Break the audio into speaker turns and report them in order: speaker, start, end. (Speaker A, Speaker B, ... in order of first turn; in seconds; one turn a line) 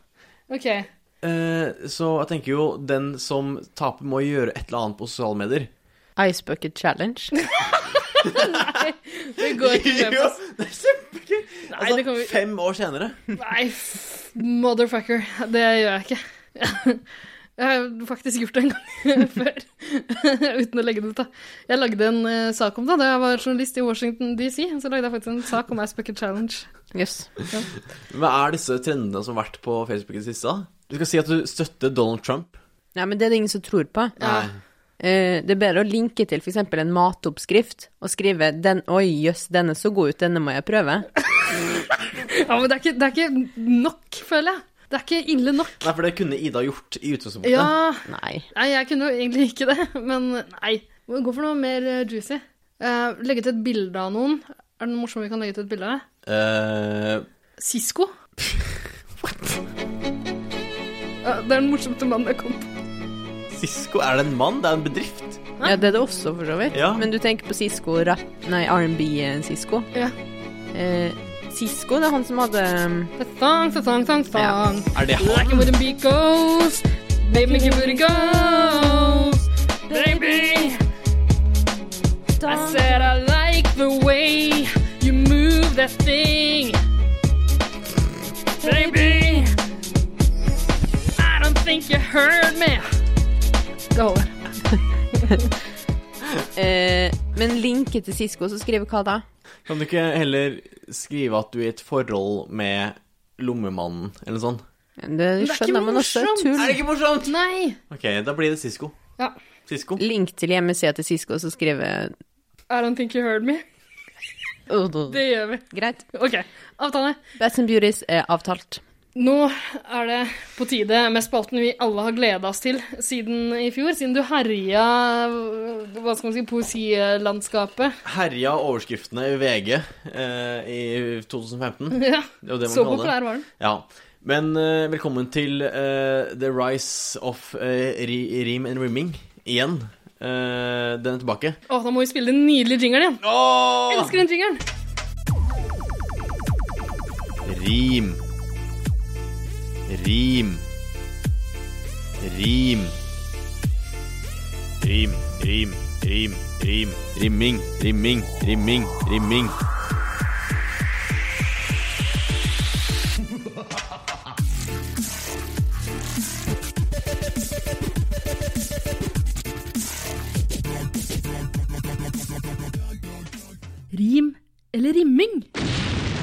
Speaker A: 0.5-0.9
Speaker B: 1.2-5.7
Speaker C: 6.2-7.5
Speaker A: 7.5-10.4
Speaker B: 9.4-13.2
Speaker A: 11.7-12.4
Speaker A: 13.4-17.0
Speaker A: 17.6-26.7
Speaker C: 26.9-27.4
Speaker B: 28.1-32.6
Speaker C: 33.0-34.1
Speaker B: 34.2-34.6
Speaker A: 34.2-34.5
Speaker C: 35.0-41.1
Speaker A: 42.2-45.9
Speaker B: 45.8-47.7
Speaker A: 47.4-56.0
Speaker C: 48.1-48.5
Speaker B: 56.2-57.3
Speaker A: 57.6-58.1
Speaker A: 61.2-62.7
Speaker B: 63.5-65.4
Speaker C: 65.6-69.9
Speaker B: 66.7-67.1
Speaker C: 70.7-73.1
Speaker A: 73.2-80.8
Speaker B: 74.9-75.7
Speaker C: 77.3-78.0
Speaker A: 82.5-86.8
Speaker A: 88.6-89.5
Speaker C: 88.7-89.4
Speaker A: 91.2-92.9
Speaker A: 93.9-94.3
Speaker A: 95.1-95.5
Speaker C: 96.5-99.2
Speaker B: 99.7-104.6
Speaker C: 105.0-106.8
Speaker A: 105.4-107.8
Speaker B: 106.6-107.3
Speaker B: 107.9-109.0
Speaker B: 109.7-110.0
Speaker C: 110.0-112.2
Speaker A: 112.7-113.6
Speaker C: 114.7-116.0
Speaker A: 115.1-117.2
Speaker C: 117.4-118.8
Speaker A: 119.2-128.0
Speaker B: 128.1-141.6
Speaker A: 131.9-133.5
Speaker A: 141.7-143.2
Speaker B: 143.2-144.2
Speaker A: 143.9-144.6
Speaker B: 147.4-148.2
Speaker B: 149.9-150.6
Speaker B: 152.2-152.9
Speaker B: 154.8-159.6
Speaker A: 173.9-175.5